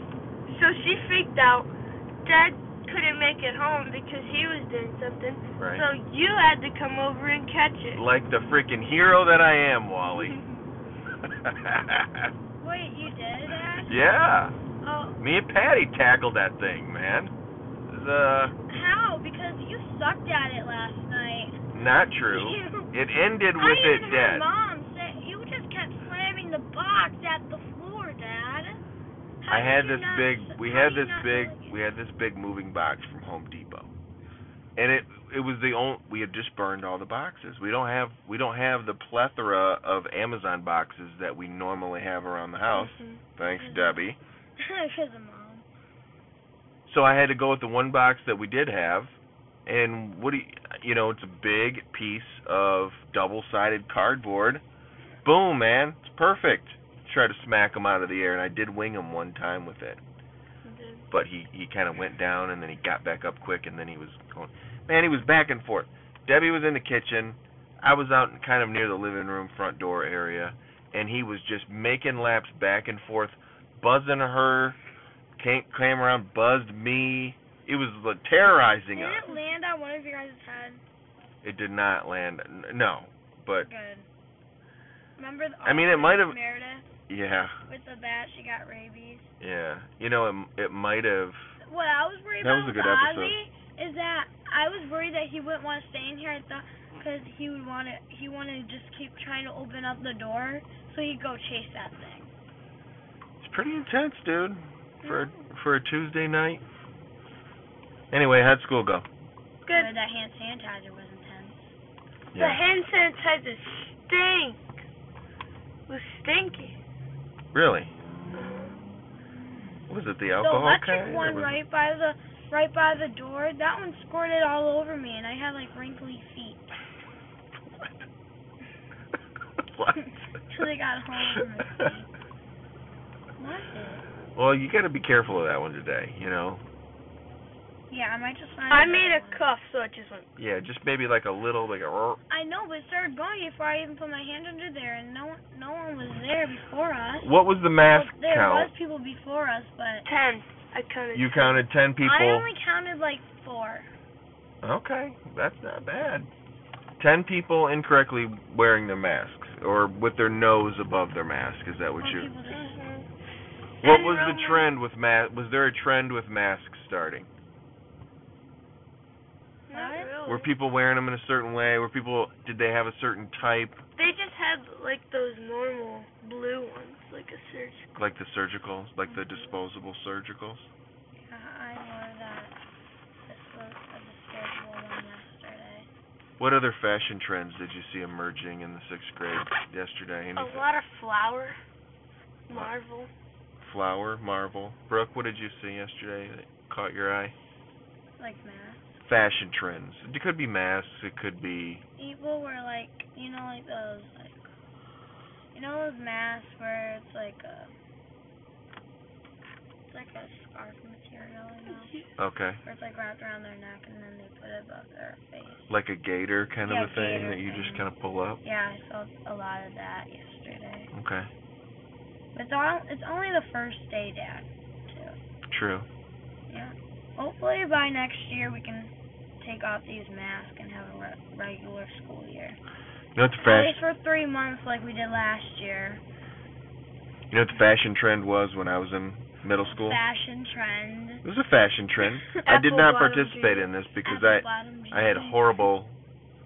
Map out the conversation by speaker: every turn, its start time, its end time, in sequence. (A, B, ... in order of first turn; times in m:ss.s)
0:00.5-0:01.7 A
0:02.2-0:08.0 A
0:05.6-0:05.9 B
0:07.9-0:10.4 B
0:10.2-0:10.5 A
0:11.2-0:12.3 B
0:12.6-0:14.0 C
0:13.9-0:14.6 B
0:14.8-0:15.2 C
0:15.2-0:17.3 B
0:17.9-0:18.6 B
0:18.7-0:21.6 C
0:21.7-0:24.5 B
0:22.3-0:22.9 C
0:23.6-0:28.8 C
0:29.4-0:31.8 C
0:29.5-0:33.9 B
0:34.8-0:44.2 B
0:42.7-0:43.2 A
0:43.4-0:45.7 C
0:46.9-0:49.2 B
0:49.7-0:54.6 B
0:55.2-1:00.0 B
1:00.6-1:01.0 A
1:01.1-1:14.8 B
1:15.4-1:19.3 B
1:18.9-1:20.8 C
1:21.4-1:23.7 B
1:23.6-1:24.1 C
1:25.2-1:26.9 C
1:25.6-1:26.4 B
1:27.1-1:27.6 B
1:27.7-1:29.3 C
1:29.4-1:31.6 B
1:31.6-1:42.3 C
1:32.4-1:33.4 B
1:43.4-1:46.6 B
1:45.0-1:45.4 C
1:48.1-1:49.0 B
1:49.7-1:49.9 A
1:49.7-1:51.7 C
1:52.3-1:52.6 B
1:52.4-1:54.8 A
1:55.9-1:56.8 A
1:57.5-1:57.9 B
1:58.3-1:58.8 A
1:59.9-2:01.6 B
2:00.4-2:06.7 C
2:09.7-2:10.0 B
2:10.0-2:12.1 C
2:11.4-2:11.9 B
2:13.4-2:14.0 C
2:14.4-2:16.6 B
2:17.9-2:19.5 C
2:18.7-2:20.3 A
2:20.4-2:22.2 B
2:22.3-2:30.1 C
2:27.2-2:28.7 B
2:30.0-2:31.6 A
2:31.1-2:32.5 B
2:32.0-2:33.9 C
2:34.6-2:36.3 B
2:37.0-2:42.3 B
2:42.0-2:42.8 C
2:42.5-2:43.1 A
2:43.8-2:47.3 B
2:43.8-2:44.7 A
2:49.7-2:50.5 A
2:49.7-2:50.1 C
2:50.3-2:53.8 B
2:54.0-2:57.9 A
2:58.0-3:00.7 B
3:01.2-3:02.6 C
3:03.2-3:05.9 C
3:06.4-3:10.7 B
3:10.4-3:11.6 A
3:12.5-3:13.1 A
3:12.5-3:12.8 B
3:13.6-3:17.3 B
3:18.2-3:19.0 C
3:19.1-3:21.8 B
3:22.0-3:24.5 C
3:25.5-3:27.7 C
3:29.8-3:32.0 C
3:31.7-3:32.1 A
3:32.2-3:32.6 B
3:32.6-3:35.7 C
3:35.7-3:38.4 B
3:36.6-3:37.9 C
3:38.4-3:40.9 C
3:40.9-3:41.3 B
3:42.3-3:45.2 C
3:45.5-3:45.9 B
3:46.5-3:52.6 C
3:53.2-3:53.8 B
3:53.4-3:56.0 C
3:57.3-4:00.0 B
3:59.7-4:01.2 C
4:01.2-4:06.0 B
4:02.4-4:03.7 A
4:04.0-4:05.7 C